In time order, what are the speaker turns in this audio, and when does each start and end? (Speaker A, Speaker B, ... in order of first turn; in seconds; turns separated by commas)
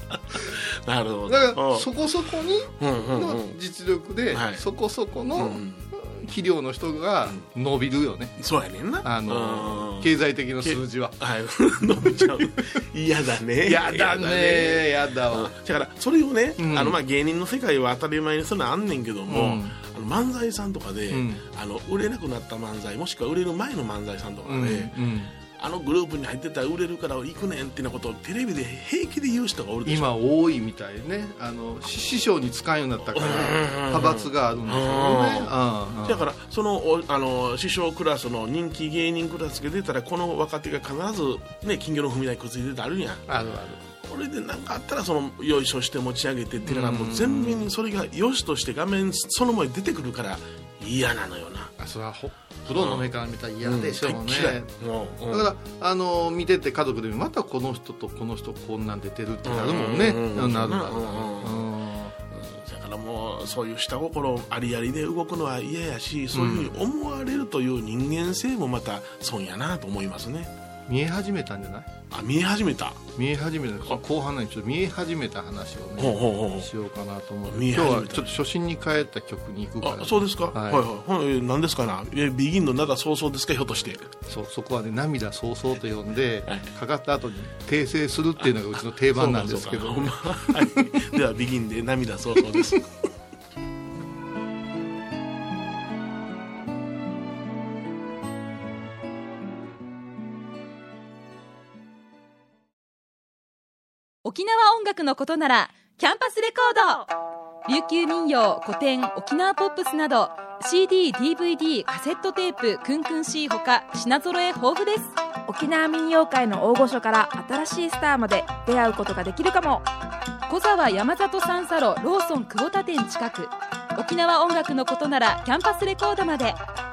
Speaker A: 0.3-1.9, Speaker B: 1.3-8.3, Speaker A: 2.8-3.5, Speaker A: 4.3-4.6, Speaker A: 5.3-5.8, Speaker A: 8.4-10.1, Speaker B: 9.0-11.2, Speaker A: 10.6-24.9, Speaker B: 12.2-12.4, Speaker B: 13.6-15.5, Speaker B: 16.6-17.0, Speaker B: 19.3-19.8, Speaker B: 21.1-21.4, Speaker B: 24.4-25.3, Speaker A: 25.6-30.1, Speaker B: 29.9-36.2, Speaker A: 33.1-35.5, Speaker A: 36.0-43.3, Speaker B: 43.3-43.9, Speaker A: 44.0-51.7, Speaker B: 46.6-47.7, Speaker B: 51.8-54.7, Speaker A: 52.7-53.1, Speaker A: 53.6-55.5, Speaker B: 55.3-62.1, Speaker A: 59.4-61.7, Speaker A: 62.3-70.5, Speaker B: 66.3-66.8, Speaker B: 70.9-71.9, Speaker A: 72.1-73.0, Speaker B: 73.2-80.8, Speaker A: 76.0-76.7, Speaker A: 77.5-78.3, Speaker A: 79.8-84.1, Speaker B: 84.2-90.8, Speaker A: 88.4-92.8, Speaker C: 104.2-107.1, Speaker C: 107.7-115.1, Speaker D: 115.5-119.9, Speaker C: 120.5-126.6